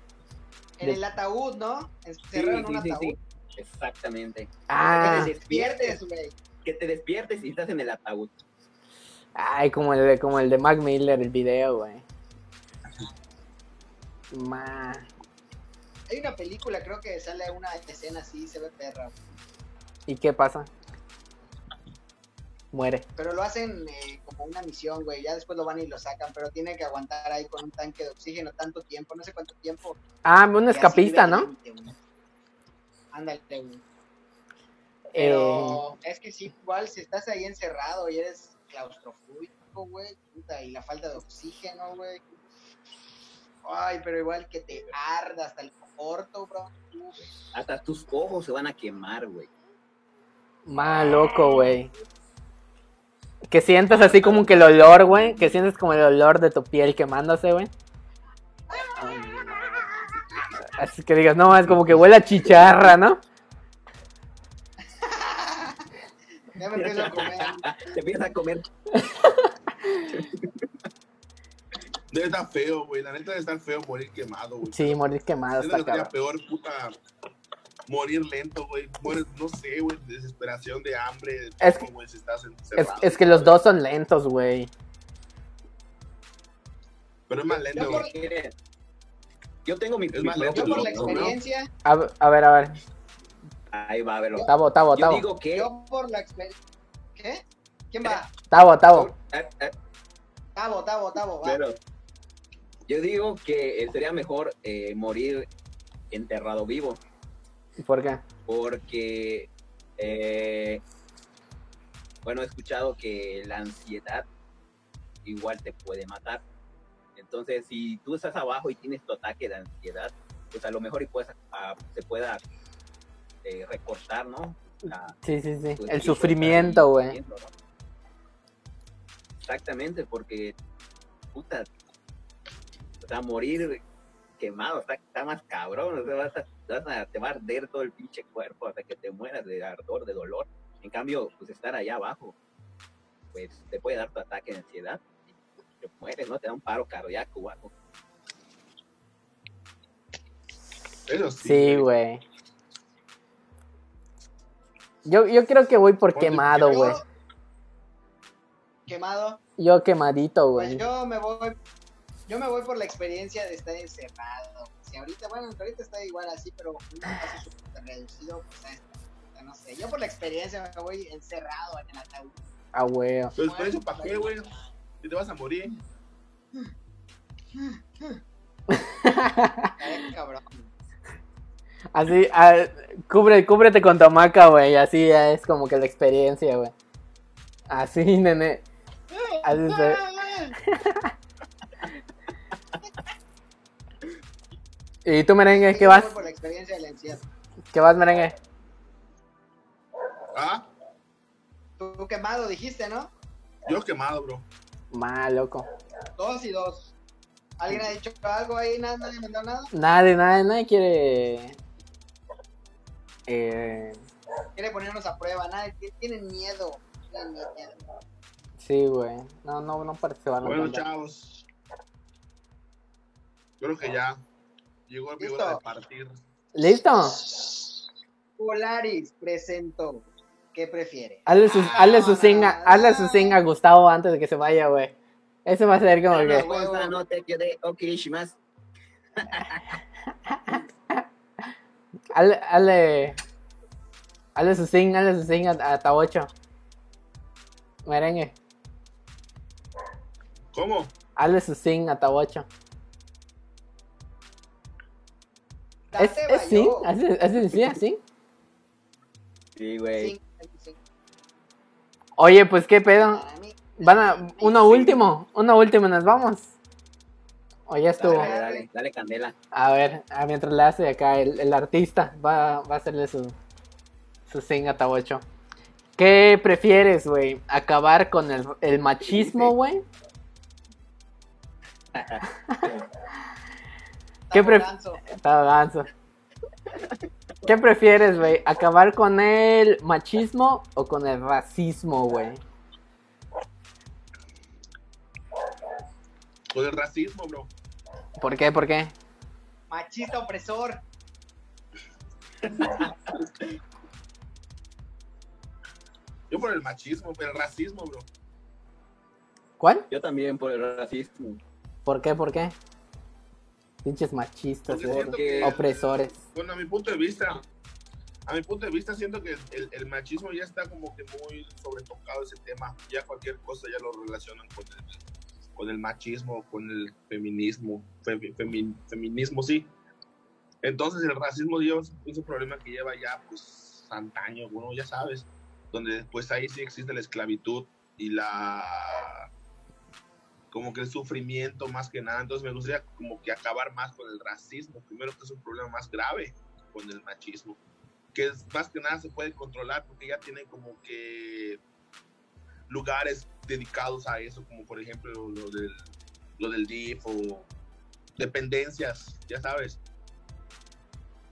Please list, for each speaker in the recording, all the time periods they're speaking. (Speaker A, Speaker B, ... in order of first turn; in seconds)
Speaker A: 0.8-3.1, 4.8-6.3, 16.1-19.1, 23.1-30.0, 30.7-32.0, 33.1-33.8, 35.2-42.2, 43.6-47.2, 64.9-65.9, 66.5-67.6, 87.7-88.1, 90.5-91.7, 95.5-96.5, 97.1-98.3, 100.5-101.6, 156.6-157.0, 158.8-159.4, 160.6-161.6, 162.3-172.4, 173.4-174.5, 177.5-178.2, 179.8-180.7, 189.1-190.5, 195.4-197.2, 201.8-203.1, 206.2-206.9, 207.6-209.7, 214.6-217.8, 225.2-225.6, 226.8-227.7, 228.4-233.4, 236.1-236.9, 255.9-256.9, 260.0-260.8, 262.9-265.0, 268.0-268.7, 284.3-285.0, 299.7-300.8
Speaker B: 2.3-6.0, 6.6-8.3, 47.2-49.5, 53.9-55.4, 66.7-68.7, 70.1-70.7, 87.6-88.5, 89.6-91.4, 93.7-95.7, 98.8-99.7, 101.4-101.8, 102.9-105.5, 106.1-107.0, 108.5-110.8, 112.2-114.2, 115.2-116.4, 117.2-122.4, 123.4-125.2, 125.8-127.5, 129.4-130.5, 131.3-131.7, 133.0-133.8, 134.4-142.3, 143.3-147.7, 236.1-238.3, 239.2-239.7, 259.6-260.1, 268.0-269.3, 279.2-279.5, 281.9-282.8, 302.4-303.3, 309.9-311.4, 314.9-315.6
Speaker C: 4.7-5.3, 9.3-12.0, 14.3-15.1, 20.1-20.7, 22.7-23.0, 30.2-31.5, 35.1-35.8, 50.7-51.9, 53.5-57.7, 59.0-60.1, 60.6-63.2, 68.9-70.2, 74.7-76.1, 81.6-81.9, 82.7-84.7, 91.8-92.8, 94.5-95.2, 98.5-99.1, 107.8-108.2, 125.2-127.2, 151.4-152.2, 155.0-157.0, 159.6-160.8, 172.7-173.3, 178.7-179.8, 181.9-186.7, 187.7-188.6, 189.4-190.0, 190.6-191.1, 195.0-196.1, 197.7-198.3, 204.9-205.7, 209.7-211.6, 213.3-214.0, 218.6-220.8, 226.5-227.2, 231.3-234.9, 235.4-236.5, 240.2-241.1, 242.1-243.2, 244.3-246.3, 247.8-248.3, 251.2-252.5, 256.0-258.0, 262.2-263.2, 263.8-266.5, 267.7-268.3, 269.5-273.3, 274.3-275.2, 276.0-279.8, 284.3-285.9, 287.4-292.4, 298.2-298.9, 309.6-309.9, 311.9-312.5, 313.8-316.2
Speaker D: 72.1-75.0, 75.6-76.9, 77.9-83.6, 87.3-88.1, 90.1-91.3, 151.1-151.9, 156.1-157.0, 173.3-174.5, 175.0-175.7, 200.3-200.7, 203.6-204.5, 220.4-221.4, 223.6-224.2, 224.9-226.2, 250.5-250.9, 296.5-297.5, 306.3-308.1, 314.7-317.4, 318.2-325.0, 325.6-329.7, 330.6-339.3, 340.5-347.6, 348.1-351.6, 352.7-357.5, 358.2-359.8